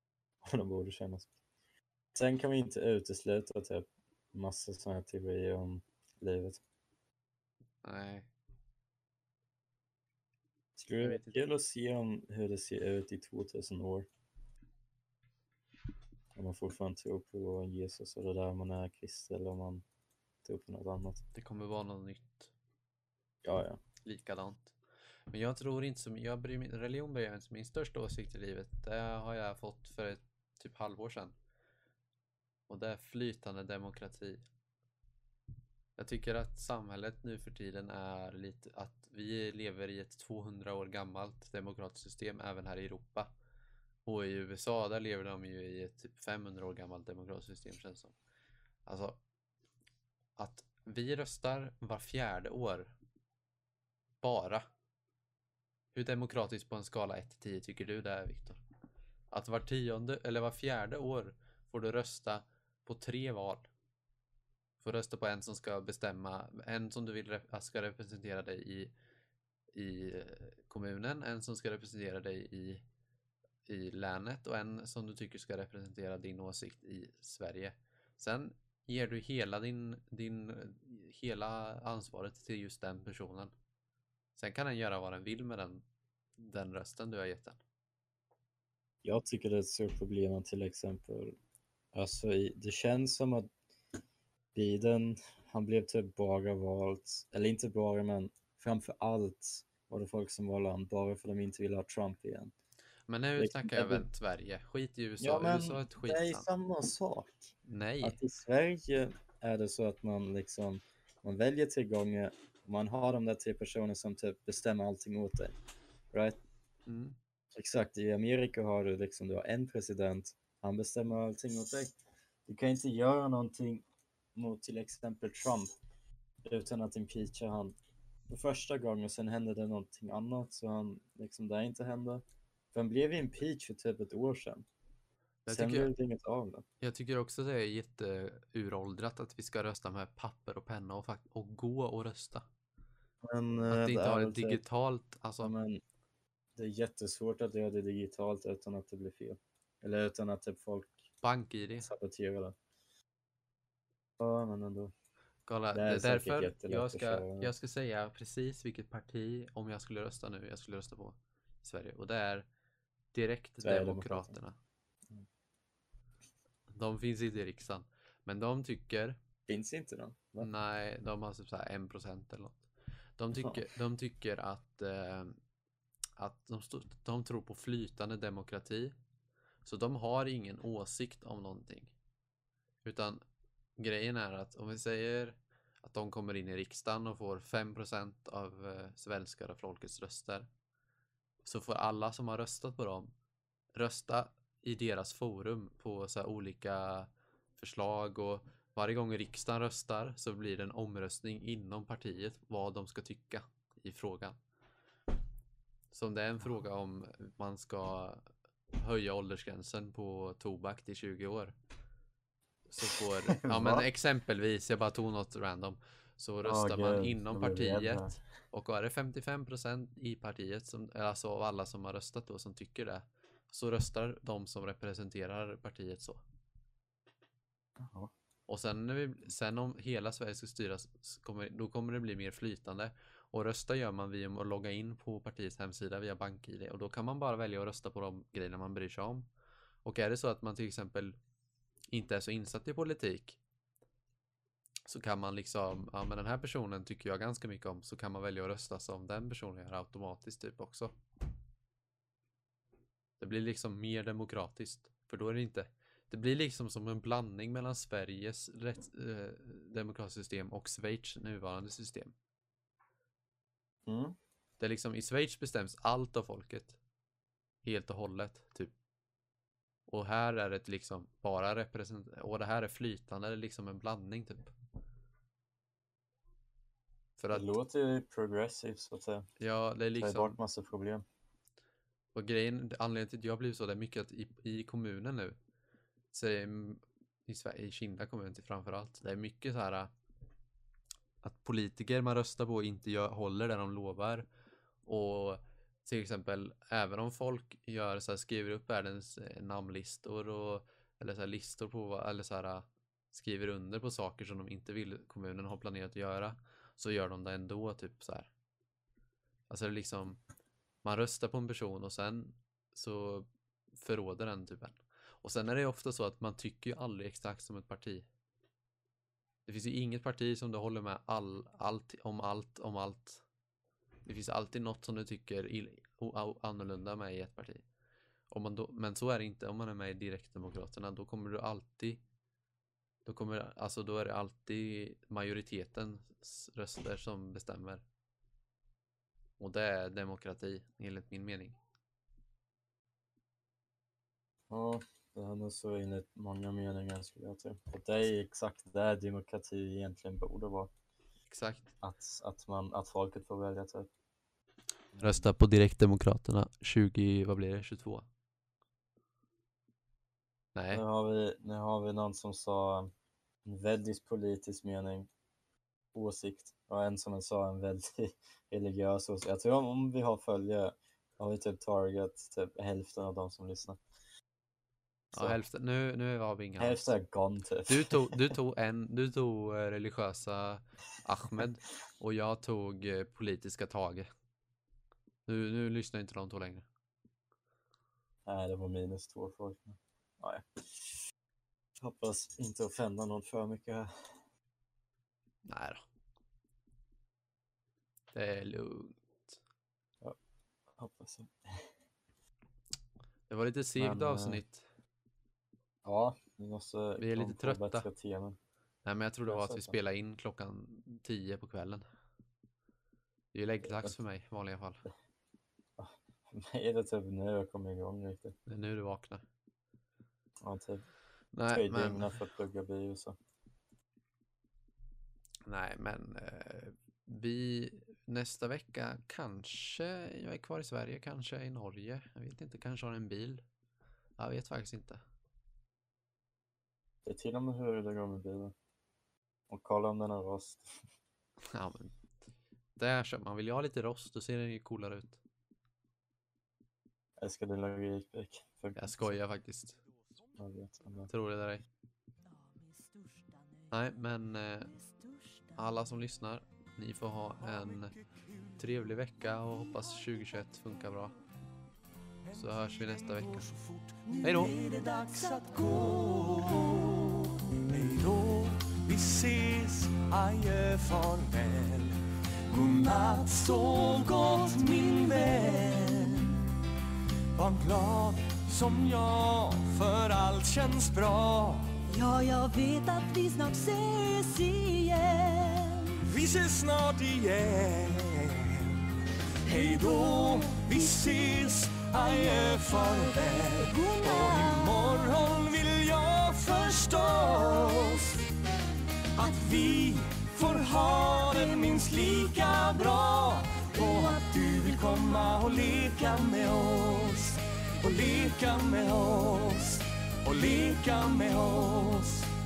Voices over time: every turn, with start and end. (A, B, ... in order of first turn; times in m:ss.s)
0:00.4-0:01.3 A
0:02.1-0:06.6 A
0:07.8-0:08.3 B
0:10.8-0:14.1 A
0:11.0-0:11.4 B
0:16.3-0:19.8 A
0:20.4-0:21.2 A
0:21.3-0:22.5 B
0:23.4-0:23.8 A
0:24.0-0:24.7 B
0:25.3-0:31.3 B
0:32.7-0:34.4 B
0:36.0-0:43.3 B
0:44.0-0:48.1 B
0:48.8-0:49.2 B
0:50.4-0:52.9 B
0:54.2-0:54.6 B
0:55.9-0:58.6 B
0:59.3-1:03.7 B
1:04.8-1:08.9 B
1:09.7-1:12.8 B
1:13.7-1:23.5 B
1:24.4-1:25.8 B
1:26.4-1:27.6 B
1:29.0-1:31.4 A
1:31.9-1:33.5 A
1:34.5-1:42.5 A
1:43.1-1:46.5 B
1:43.4-1:44.1 A
1:45.2-1:55.5 A
1:47.6-1:48.2 B
1:56.1-1:56.4 A
1:56.9-1:57.2 B
1:57.5-2:01.9 A
2:02.5-2:03.8 A
2:04.3-2:05.7 A
2:06.4-2:07.7 A
2:08.3-2:14.7 A
2:15.4-2:15.9 B
2:15.5-2:16.6 A
2:16.8-2:22.4 B
2:23.2-2:24.6 A
2:23.6-2:25.5 B
2:25.4-2:25.8 A
2:26.6-2:31.0 A
2:31.2-2:31.9 B
2:31.8-2:32.5 A
2:34.2-2:34.9 A
2:35.5-2:42.5 B
2:35.7-2:37.5 A
2:43.1-2:44.6 B
2:43.6-2:44.4 A
2:46.7-2:49.2 B
2:49.5-2:50.5 A
2:50.4-2:52.7 B
2:53.2-2:55.4 B
2:53.4-2:53.6 A
2:56.2-2:58.9 B
2:59.6-3:01.9 B
3:02.8-3:03.2 B
3:03.8-3:10.5 B
3:11.4-3:13.1 B
3:13.7-3:24.4 B
3:25.9-3:31.5 B
3:32.7-3:46.2 B
3:33.3-3:33.8 A
3:36.4-3:38.2 A
3:47.8-3:48.1 A
3:48.5-3:59.3 B
3:59.8-4:01.2 B
4:01.9-4:03.4 B
4:04.9-4:10.9 B
4:13.2-4:22.1 B
4:23.8-4:24.2 A
4:24.6-4:26.8 B
4:27.6-4:28.7 B
4:29.9-4:34.5 B
4:37.2-4:37.5 B
4:37.3-4:39.3 A
4:39.4-4:40.4 B
4:40.0-4:41.0 A
4:42.1-4:45.4 B
4:46.1-4:49.9 B
4:51.2-4:54.3 B
4:54.8-5:08.3 B
5:09.5-5:10.2 B
5:10.8-5:18.0 B
5:19.4-5:23.2 B
5:24.0-5:27.6 B
5:28.3-5:32.0 B
5:33.0-5:37.8 B
5:39.4-5:41.6 B
5:44.5-5:50.7 A
5:51.3-5:51.7 B
5:51.8-5:53.9 A
5:54.9-5:55.2 A
5:55.0-5:58.0 B
6:00.5-6:00.8 B
6:00.7-6:02.9 A
6:03.4-6:05.1 A
6:05.9-6:13.8 A
6:15.1-6:15.4 A
6:15.1-6:16.9 B
6:16.6-6:18.3 A
6:17.7-6:24.1 B
6:25.2-6:26.6 B
6:28.2-6:31.0 A
6:31.8-6:34.0 A
6:35.4-6:35.8 B
6:38.1-6:39.4 B
6:40.8-6:41.7 A
6:43.3-6:44.7 B
6:43.8-6:44.4 A
6:45.8-6:48.4 A
6:47.0-6:47.9 B
6:48.8-6:51.8 B
6:49.2-6:49.7 A
6:53.3-6:54.8 B
6:53.6-6:54.0 A
6:55.8-6:58.3 A
6:58.5-6:59.2 B
7:00.4-7:00.8 A
7:01.3-7:02.1 B
7:01.5-7:03.2 A
7:05.4-7:13.4 B
7:14.2-7:15.0 B
7:17.0-7:18.5 A
7:19.5-7:20.8 A
7:21.5-7:22.0 B
7:22.8-7:25.2 B
7:27.2-7:29.2 A
7:28.8-7:29.8 B
7:30.4-7:31.1 A
7:31.1-7:31.6 B
7:32.3-7:33.7 C
7:33.7-7:34.7 B
7:34.7-7:35.5 C
7:35.6-7:37.9 B
7:37.6-7:38.6 D
7:38.6-7:41.2 B
7:42.2-7:52.0 D
7:42.3-7:43.5 B
7:44.2-7:44.5 B
7:44.4-7:46.8 C
7:52.5-7:56.4 D
7:57.3-8:01.8 D
8:01.9-8:06.0 C
8:06.0-8:08.9 D
8:09.4-8:18.2 D
8:09.5-8:09.8 C
8:12.2-8:15.0 C
8:19.1-8:32.3 D
8:21.3-8:21.6 C
8:23.8-8:24.3 C